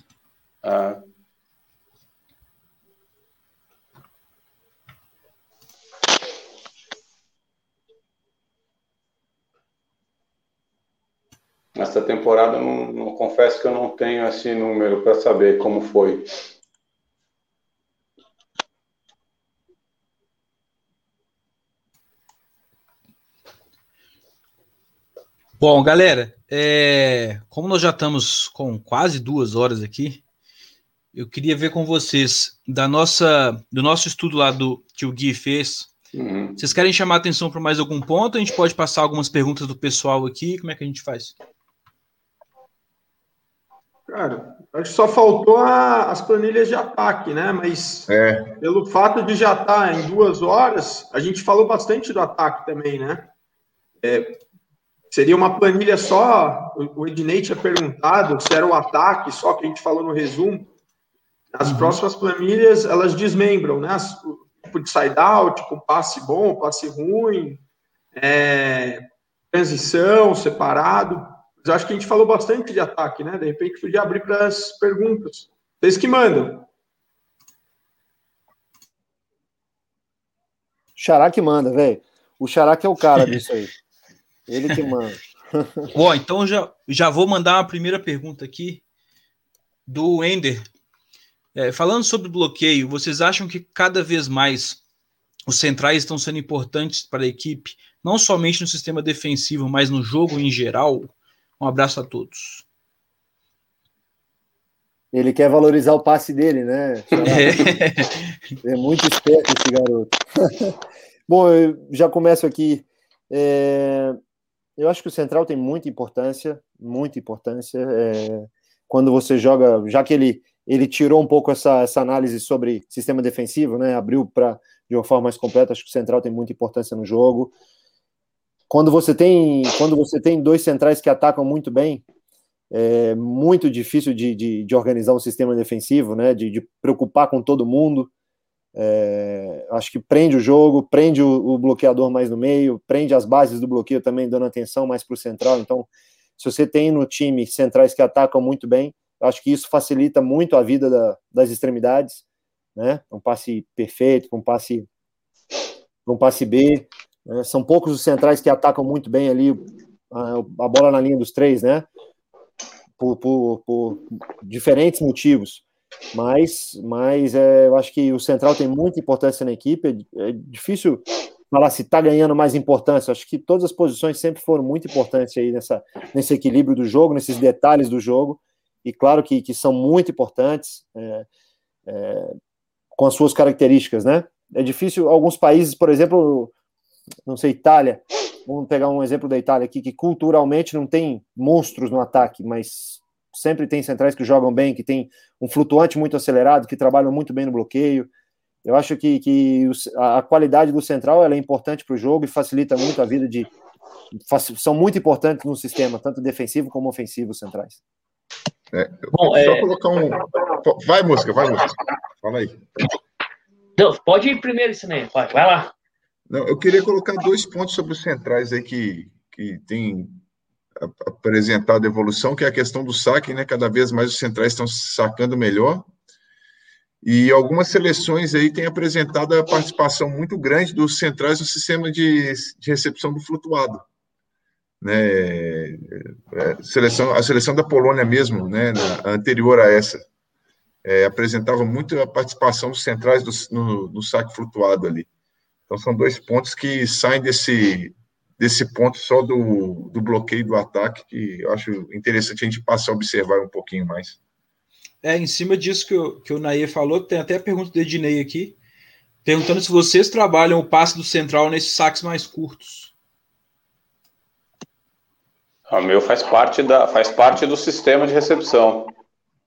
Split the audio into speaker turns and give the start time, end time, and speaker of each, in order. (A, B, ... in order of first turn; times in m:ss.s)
0:00.6-0:01.0 A
0:11.8-0:16.3 A
0:25.6-0:30.2 B
0:31.1-0:35.9 B
0:36.1-0:36.6 A
0:36.6-0:41.4 B
0:44.1-0:48.1 C
0:48.1-0:48.6 D
0:48.6-0:53.3 C
0:54.0-0:54.4 C
0:55.1-1:00.7 C
1:01.5-1:07.6 C
1:01.6-1:02.0 B
1:08.1-1:16.7 C
1:21.0-1:23.7 E
1:24.5-1:25.9 E
1:25.9-1:28.8 B
1:29.9-1:30.6 B
1:31.6-1:34.8 B
1:35.5-1:42.6 B
1:45.1-1:47.9 E
1:47.3-1:48.4 B
1:48.6-1:50.8 E
1:51.3-1:54.2 E
1:54.8-2:07.5 E
2:08.7-2:12.0 E
2:12.7-2:18.1 E
2:18.8-2:32.2 E
2:32.8-2:34.9 E
2:36.1-2:41.9 E
2:43.0-2:45.6 E
2:46.1-3:01.3 E
3:01.9-3:02.3 E
3:03.0-3:06.5 E
3:07.3-3:18.1 E
3:18.6-3:23.5 E
3:24.3-3:27.8 E
3:28.7-3:32.7 D
3:29.1-3:29.7 F
3:33.8-3:35.7 F
3:36.3-3:40.2 D
3:40.8-3:45.9 D
3:47.0-3:53.8 D
3:54.8-4:00.0 D
4:00.8-4:05.1 D
4:05.7-4:14.2 D
4:15.0-4:18.6 B
4:19.2-4:22.9 B
4:25.7-4:28.9 A